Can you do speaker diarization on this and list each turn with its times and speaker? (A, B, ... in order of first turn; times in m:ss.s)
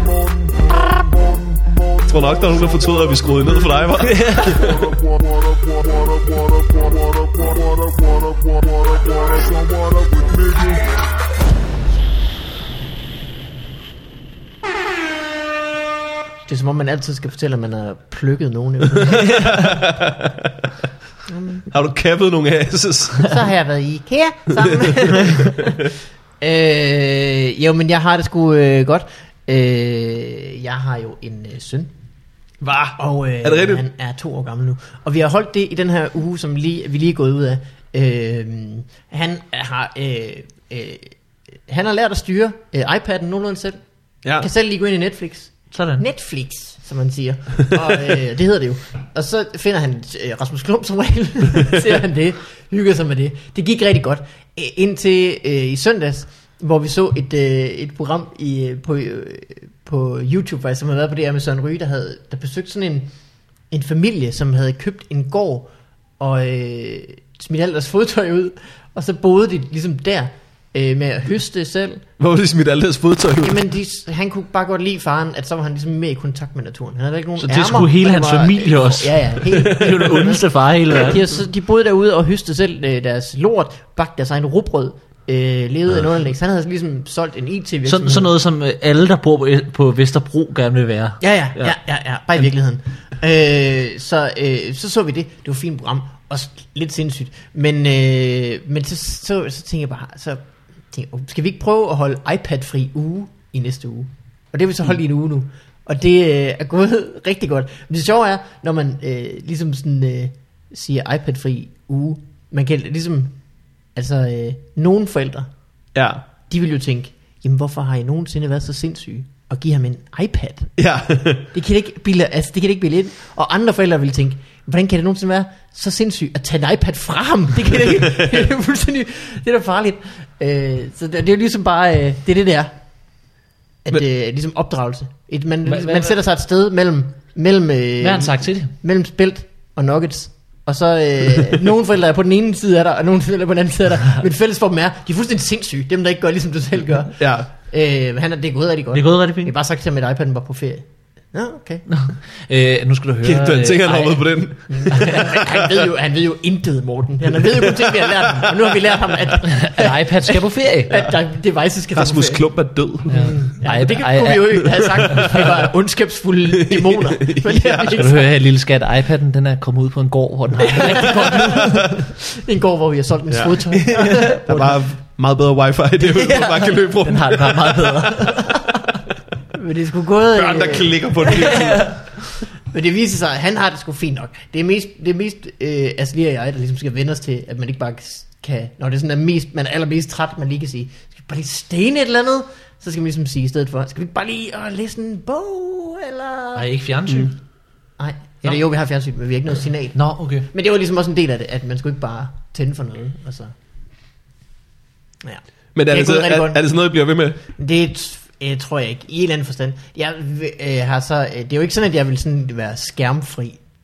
0:02.1-0:04.9 A
0:04.0-0:04.8 B
0:16.5-0:19.5 C
0:18.9-0:20.7 A
0:21.3-0:21.7 C
0:21.7-0:23.4 A
0:23.2-0:31.9 C
0:24.6-0:25.5 A
0:32.6-0:33.8 A
0:33.0-0:41.1 C
0:41.7-0:43.8 C
0:44.4-1:03.1 C
0:45.7-0:46.0 B
1:03.7-1:12.0 C
1:12.2-1:13.6 A
1:13.4-1:28.3 C
1:17.4-1:21.2 B
1:27.8-1:31.8 B
1:31.2-1:40.4 C
1:40.9-1:53.3 C
1:53.9-1:55.5 C
1:55.9-1:56.2 A
1:56.5-2:00.7 C
2:00.8-2:01.5 A
2:01.5-2:12.7 C
2:07.9-2:08.5 A
2:13.8-2:31.8 C
2:15.6-2:16.2 B
2:18.0-2:18.7 B
2:27.2-2:27.5 A
2:28.9-2:29.5 B
2:31.9-2:34.3 B
2:33.2-2:35.8 A
2:34.7-2:42.4 C
2:34.9-2:35.2 B
2:37.3-2:38.6 A
2:39.4-2:41.0 B
2:41.9-2:43.3 A
2:43.1-2:48.2 C
2:43.1-2:45.4 B
2:44.8-2:45.5 A
2:46.5-2:48.0 A
2:47.9-2:51.9 B
2:50.6-2:54.8 C
2:51.5-2:51.8 A
2:53.3-2:58.4 A
2:53.8-2:54.4 B
2:56.0-2:58.9 B
2:59.5-3:01.7 C
3:00.3-3:01.9 A
3:01.2-3:02.0 B
3:02.7-3:16.7 C
3:16.5-3:17.4 B
3:17.1-3:17.3 A
3:18.0-3:23.5 C
3:19.9-3:20.5 B
3:25.2-3:26.6 C
3:25.7-3:27.4 A
3:27.6-3:33.6 C